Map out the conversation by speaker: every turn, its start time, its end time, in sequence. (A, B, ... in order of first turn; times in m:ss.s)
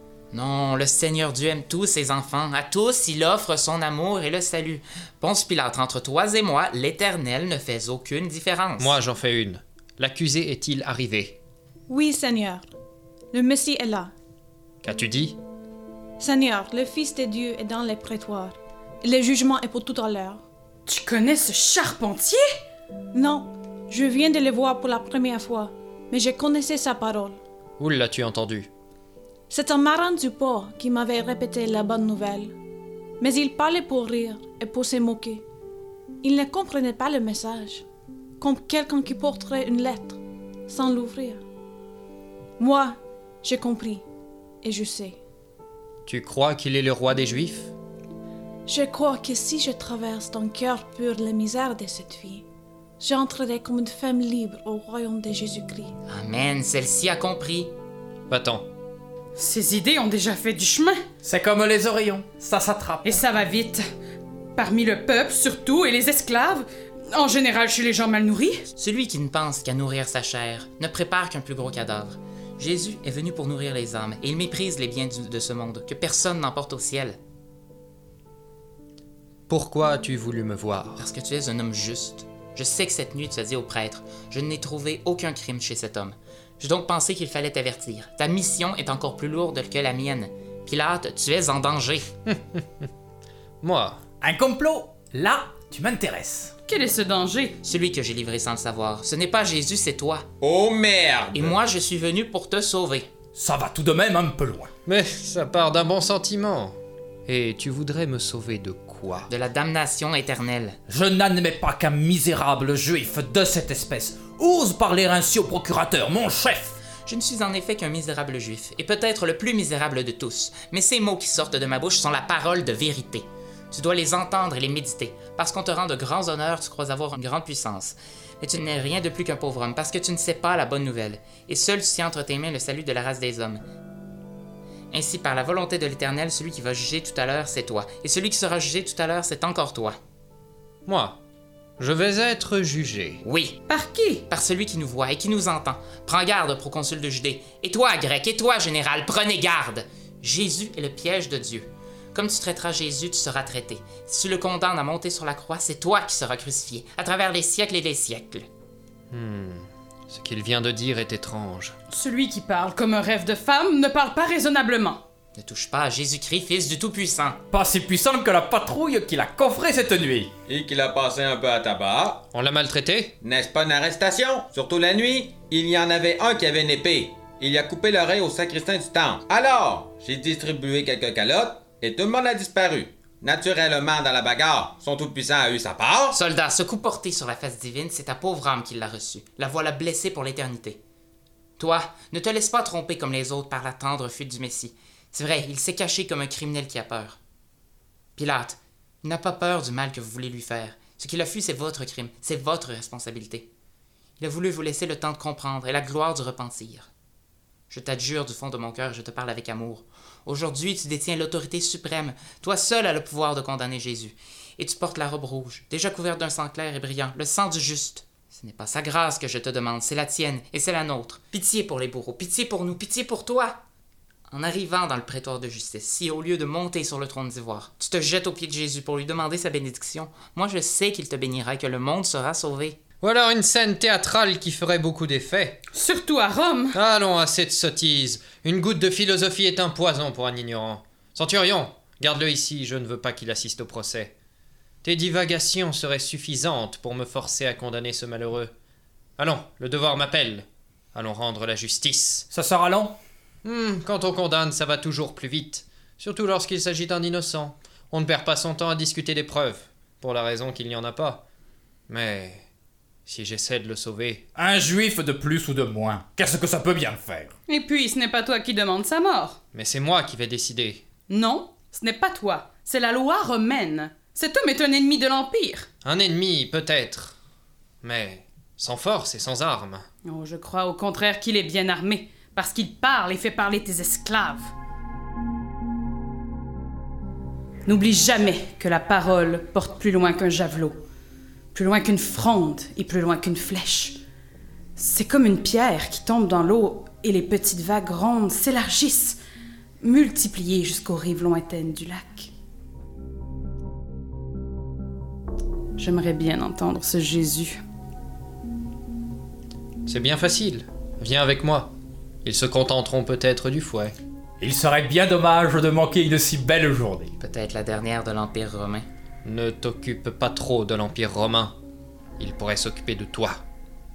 0:00.3-0:09.0 A
0:08.8-0:11.4 B
0:11.9-0:12.7 C
0:13.3-0:14.1 C
0:14.8-0:15.4 B
0:16.2-0:20.4 C
0:20.9-0:22.4 D
0:23.1-0:27.4 C
0:27.8-0:28.7 B
0:29.5-0:32.5 C
0:33.2-0:35.4 C
0:36.2-0:37.8 C
0:38.4-0:41.4 C
0:42.6-0:44.0 C
0:44.6-0:45.2 C
0:46.0-0:47.7 B
0:48.6-0:52.4 C
0:53.0-0:55.9 C
0:56.1-0:57.7 A
0:58.3-0:58.6 B
0:59.4-1:01.0 D
1:01.2-1:03.2 E
1:03.0-1:03.8 D
1:04.6-1:08.6 D
1:08.7-1:17.2 A
1:19.5-1:21.0 B
1:21.0-1:32.1 A
1:32.3-1:32.9 B
1:33.6-1:34.0 B
1:34.2-1:36.5 E
1:36.7-1:37.6 D
1:37.6-1:40.3 A
1:40.4-1:41.5 F
1:41.3-1:43.1 A
1:43.3-1:44.7 E
1:44.8-1:49.3 B
1:49.3-1:50.8 A
1:50.9-1:56.8 E
1:57.0-2:13.6 A
2:14.9-2:20.0 A
2:20.8-2:21.2 B
2:21.8-2:23.2 B
2:23.2-2:23.6 A
2:23.7-2:24.2 D
2:24.3-2:38.5 A
2:39.1-2:41.7 B
2:41.9-2:45.0 D
2:45.4-2:47.4 A
2:47.5-2:50.3 E
2:50.5-2:52.2 F
2:52.3-2:53.1 B
2:53.2-3:06.2 F
3:06.1-3:10.8 A
3:11.6-3:17.2 A
3:18.2-3:23.5 A
3:24.2-3:26.9 A
3:27.7-3:43.6 A
3:44.3-3:52.8 A
3:53.0-3:55.6 B
3:55.7-3:56.7 D
3:56.7-4:04.1 B
4:04.8-4:08.5 B
4:09.2-4:12.3 B
4:12.3-4:13.0 E
4:13.4-4:21.2 B
4:21.9-4:22.4 B
4:23.0-4:24.2 B
4:24.3-4:27.3 E
4:27.5-4:29.4 D
4:29.5-4:30.8 B
4:31.1-4:35.7 D
4:35.8-4:37.1 B
4:37.8-4:39.8 B
4:40.0-4:44.5 D
4:47.6-4:50.8 D
4:51.5-4:54.0 D
4:54.8-4:59.2 D
4:59.8-5:02.3 D
5:05.8-5:07.6 D
5:09.9-5:11.7 B
5:12.2-5:13.9 B
5:14.4-5:17.1 E
5:17.2-5:18.9 A
5:19.2-5:21.5 B
5:22.2-5:23.4 B